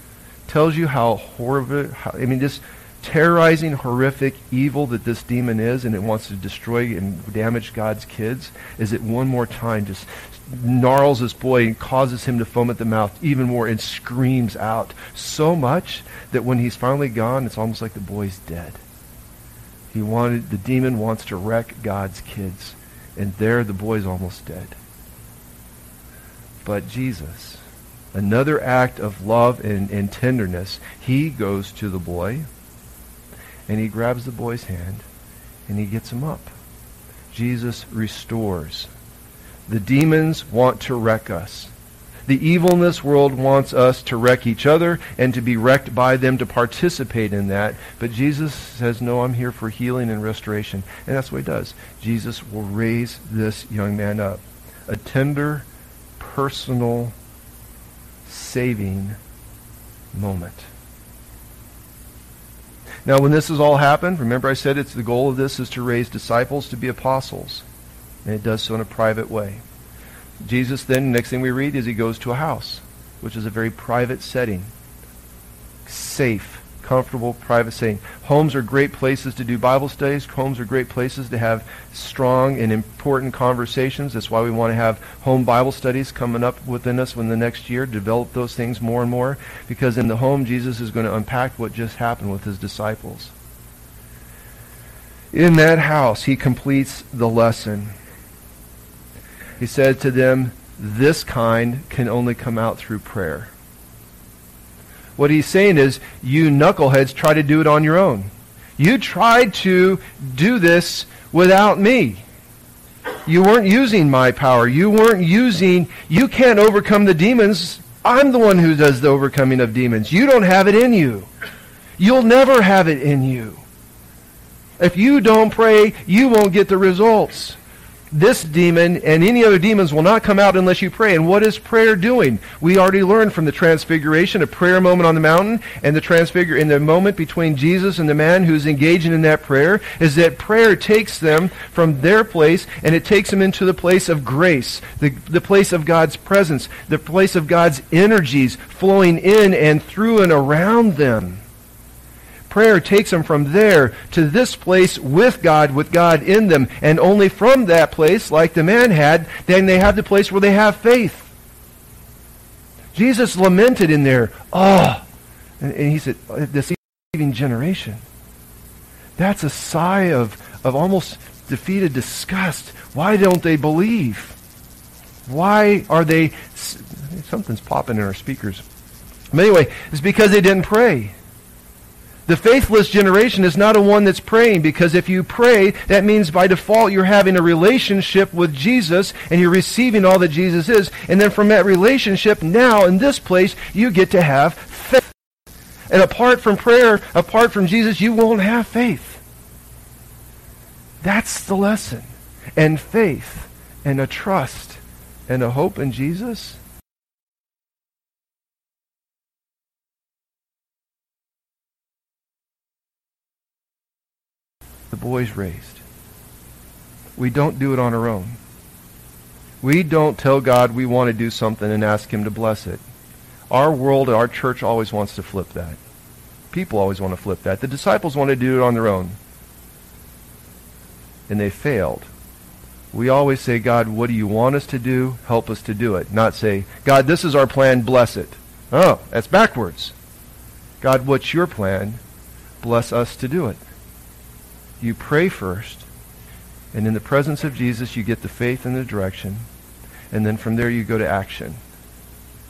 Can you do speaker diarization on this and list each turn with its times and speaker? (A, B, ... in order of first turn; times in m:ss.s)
0:00.5-0:18.8 A
0:19.9-0:24.8 A
0:26.6-0:27.6 A
0:28.1-0:32.5 A
0:33.7-0:35.1 A
0:35.7-0:36.5 A
0:37.3-0:38.9 A
0:39.7-0:41.7 A
0:42.3-0:55.6 A
0:56.2-0:57.1 A
0:58.3-0:59.2 A
1:00.1-1:00.7 A
1:03.0-1:07.6 A
1:08.2-1:09.6 A
1:10.4-1:14.7 A
1:15.9-1:33.3 A
1:35.3-1:37.9 A
1:39.6-1:43.5 A
1:45.2-1:52.2 A
1:53.3-2:01.3 A
2:02.0-2:03.6 A
2:04.8-2:07.6 A
2:08.1-2:31.4 A
2:32.5-2:41.3 A
2:42.9-2:45.0 A
2:45.6-2:48.0 A
2:49.2-2:54.4 A
2:55.3-2:58.6 A
2:59.3-3:01.1 A
3:02.3-3:15.1 A
3:15.9-3:19.2 A
3:21.0-3:26.6 A
3:34.9-3:35.8 A
3:37.2-3:38.4 A
3:39.6-3:42.8 A
3:43.5-3:45.8 A
3:46.5-3:49.2 A
3:51.3-3:52.1 A
3:52.9-3:59.9 A
4:00.8-4:02.0 A
4:02.6-4:03.6 A
4:04.8-4:05.9 A
4:06.7-4:09.5 A
4:10.1-4:11.6 A